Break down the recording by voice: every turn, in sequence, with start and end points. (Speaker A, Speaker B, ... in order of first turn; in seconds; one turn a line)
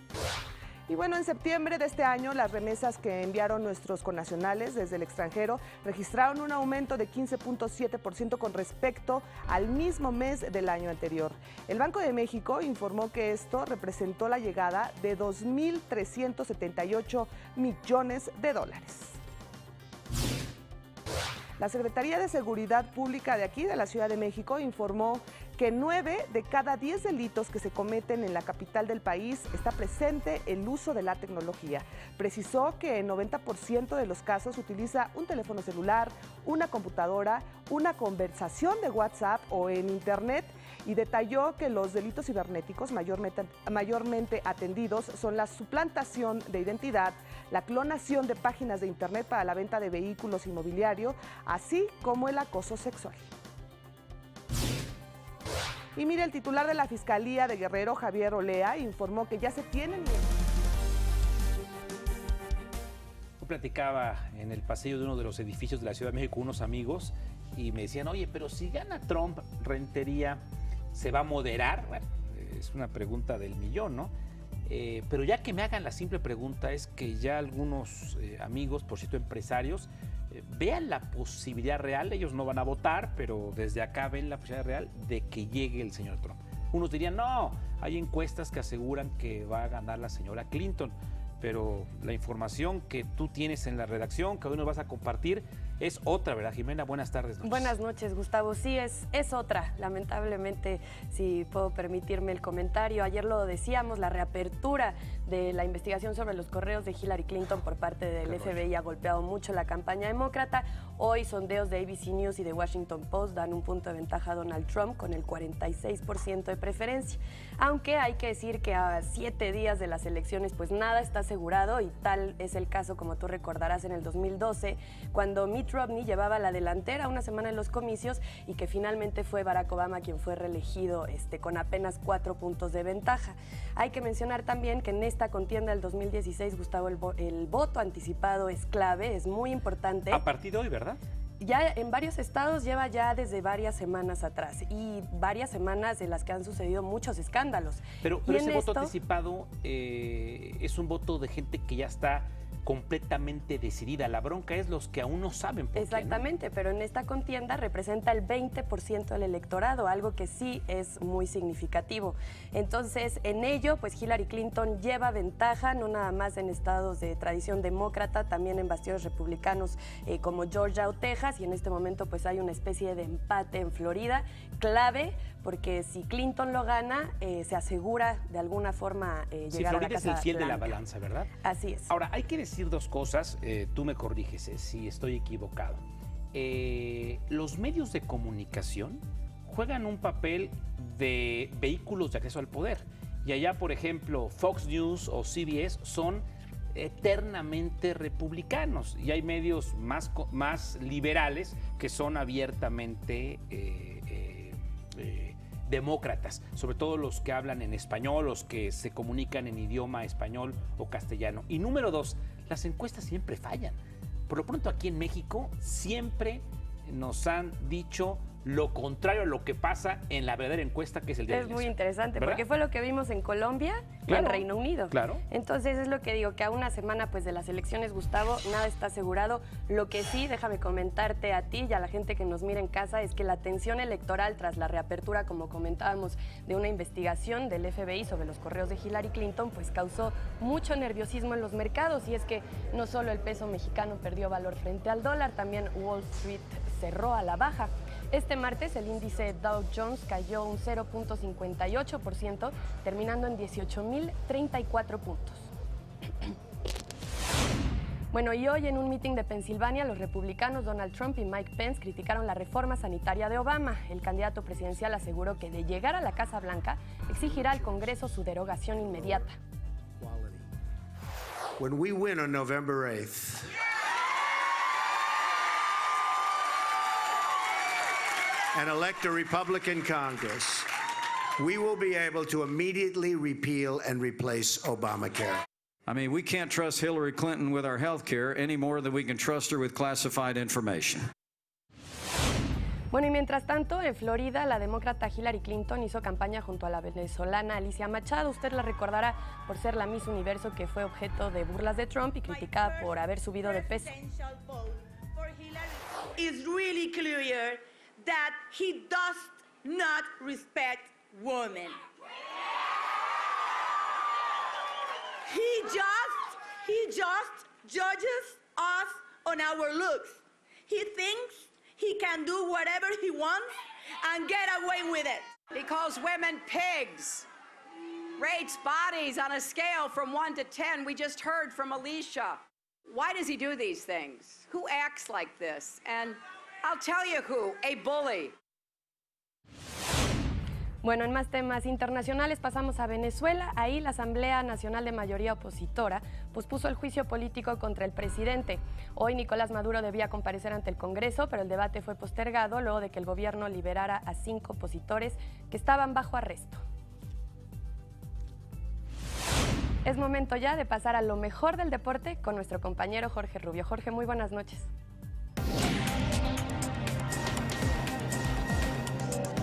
Speaker A: 0.9-19.2
Speaker A: 21.6-53.3
Speaker A: 56.0-60.3
Speaker B: 63.4-70.4
Speaker B: 70.9-74.1
Speaker B: 74.7-97.8
Speaker C: 97.4-140.2
Speaker B: 108.3-108.6
Speaker B: 140.1-141.0
Speaker C: 141.4-148.9
Speaker B: 148.0-156.2
Speaker C: 155.8-180.8
Speaker B: 179.5-181.3
Speaker C: 181.4-181.9
Speaker B: 181.9-185.8
Speaker B: 186.3-222.4
Speaker C: 221.3-255.5
Speaker B: 224.1-225.2
Speaker C: 258.1-269.4
Speaker D: 270.0-270.4
Speaker D: 271.6-273.5
Speaker D: 278.5-280.7
Speaker D: 281.4-285.4
Speaker E: 285.9-291.1
Speaker C: 292.9-303.9
Speaker F: 302.3-311.8
Speaker F: 315.3-323.5
Speaker F: 324.0-325.3
Speaker G: 325.5-327.3
Speaker G: 328.2-338.4
Speaker C: 340.8-356.6
Speaker C: 359.9-364.7